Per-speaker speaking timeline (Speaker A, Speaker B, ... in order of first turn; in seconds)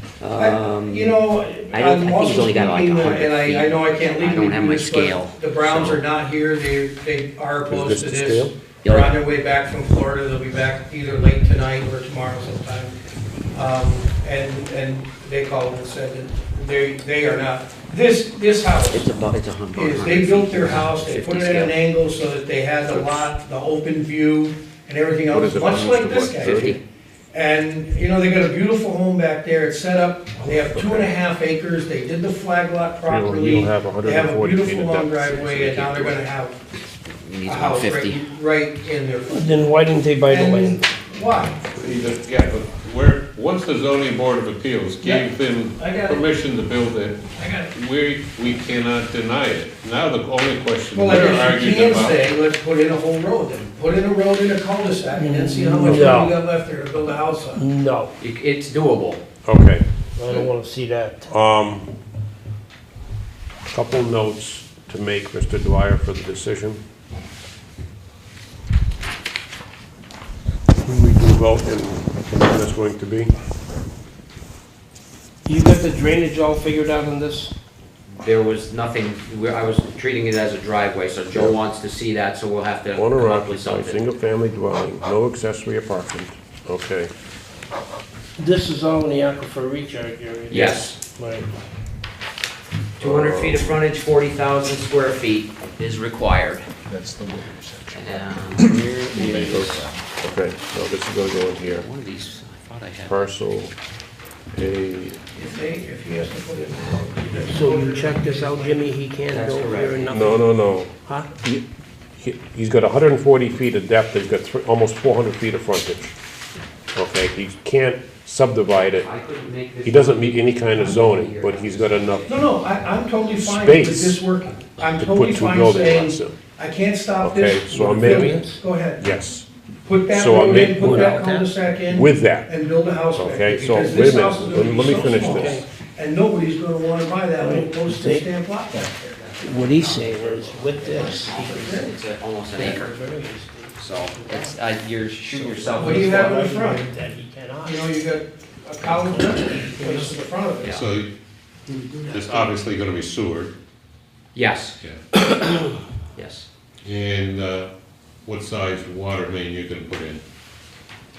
Speaker A: 0.2-1.2, 1.7-6.0, 8.8-9.2, 18.9-21.8, 26.4-26.8, 36.9-38.2, 58.2-59.2, 78.2-84.0, 90.5-91.0, 93.0-96.7, 97.9-100.0, 101.6-103.2, 109.3-110.3, 119.0-122.5, 139.2-142.9, 143.8-146.4, 150.6-150.9, 154.3-154.8, 156.2-156.5
Speaker B: 0.4-12.9, 13.5-19.1, 19.7-26.8, 27.3-36.7, 37.4-39.6, 40.3-41.7, 45.8-46.3, 47.4-47.7, 50.9-57.6, 105.3-108.9, 122.3-129.1, 129.8-139.2, 141.5-141.9, 145.8-146.9, 147.6-150.8
Speaker C: 7.7-8.6, 22.9-23.2, 25.3-26.8, 30.6-31.1, 33.1-36.2, 59.5-59.9, 61.3-61.9, 63.7-66.8, 70.8-73.3, 81.3-81.6, 82.9-87.1, 93.0-93.8, 99.5-101.9, 103.0-103.7, 104.5-105.2, 110.1-111.6, 112.2-116.2, 117.0-119.1, 119.8-122.3, 123.3-124.2, 124.9-126.4, 127.2-128.3, 129.0-129.5, 130.1-130.8, 131.9-132.5, 133.1-135.6
Speaker D: 39.3-40.8, 55.1-56.4, 57.5-58.1, 60.2-61.3, 75.5-77.5, 88.4-91.5, 107.4-110.5, 111.0-111.3, 127.7-128.6, 130.6-131.5, 134.8-135.7, 137.4-138.3, 139.4-142.0, 142.5-144.6, 145.3-148.0, 148.8-150.3, 151.7-152.5
Speaker E: 41.7-52.2, 150.7-151.1, 152.1-153.5, 154.8-155.1, 156.8-157.7, 158.2-160.2
Speaker F: 96.9-98.0, 98.5-99.6